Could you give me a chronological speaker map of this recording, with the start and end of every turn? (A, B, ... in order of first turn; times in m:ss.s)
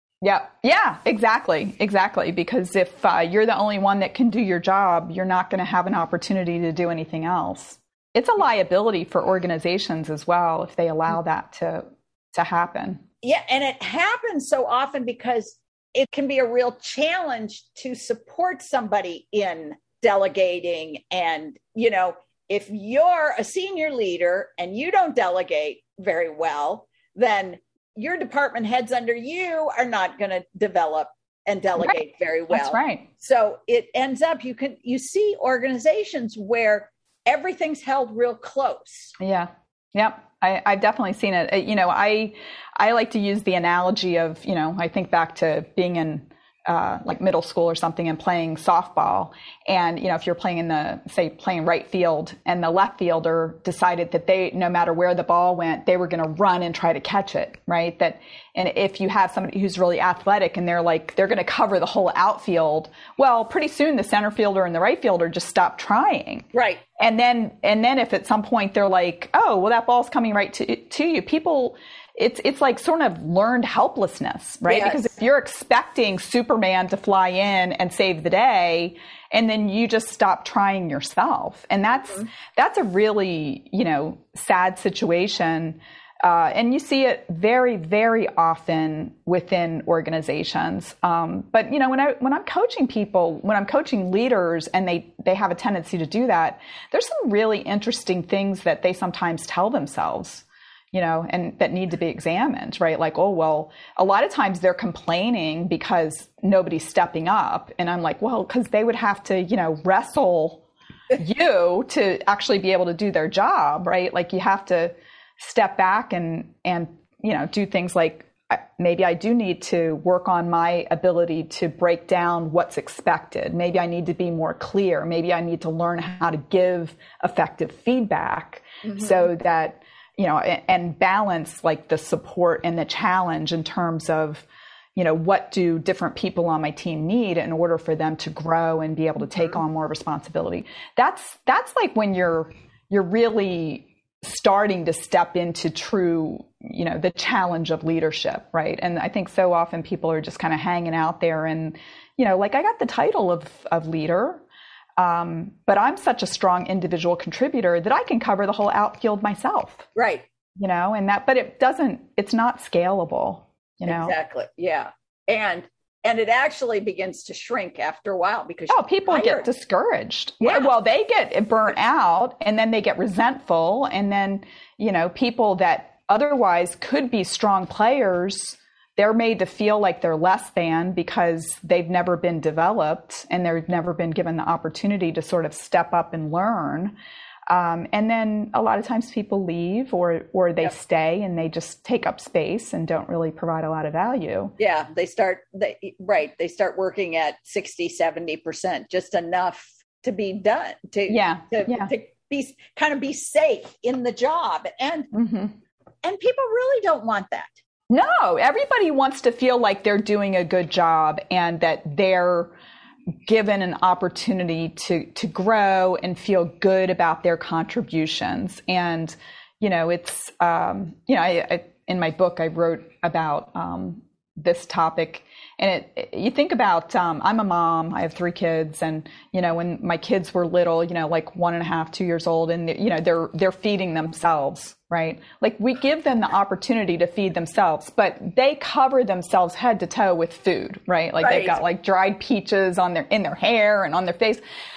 0:00.2-0:13.0 A
0:13.2-0:39.1 B
0:32.5-0:33.1 A
0:39.2-1:06.5 A
1:06.5-1:06.8 B
1:07.0-1:50.6 A
1:14.7-1:15.1 B
1:51.2-2:14.4 A
2:08.8-2:09.2 B
2:15.0-2:34.4 A
2:35.0-2:39.9 A
2:39.9-2:40.3 B
2:40.6-2:44.1 A
2:43.8-2:49.5 B
2:48.7-3:06.9 A
2:50.4-2:50.7 B
3:07.5-3:14.5 A
3:14.6-3:25.1 B
3:21.1-3:21.9 A
3:25.1-3:25.5 A
3:26.0-3:27.6 B
3:27.9-3:32.5 A
3:33.3-4:04.4 A
4:01.2-4:01.6 B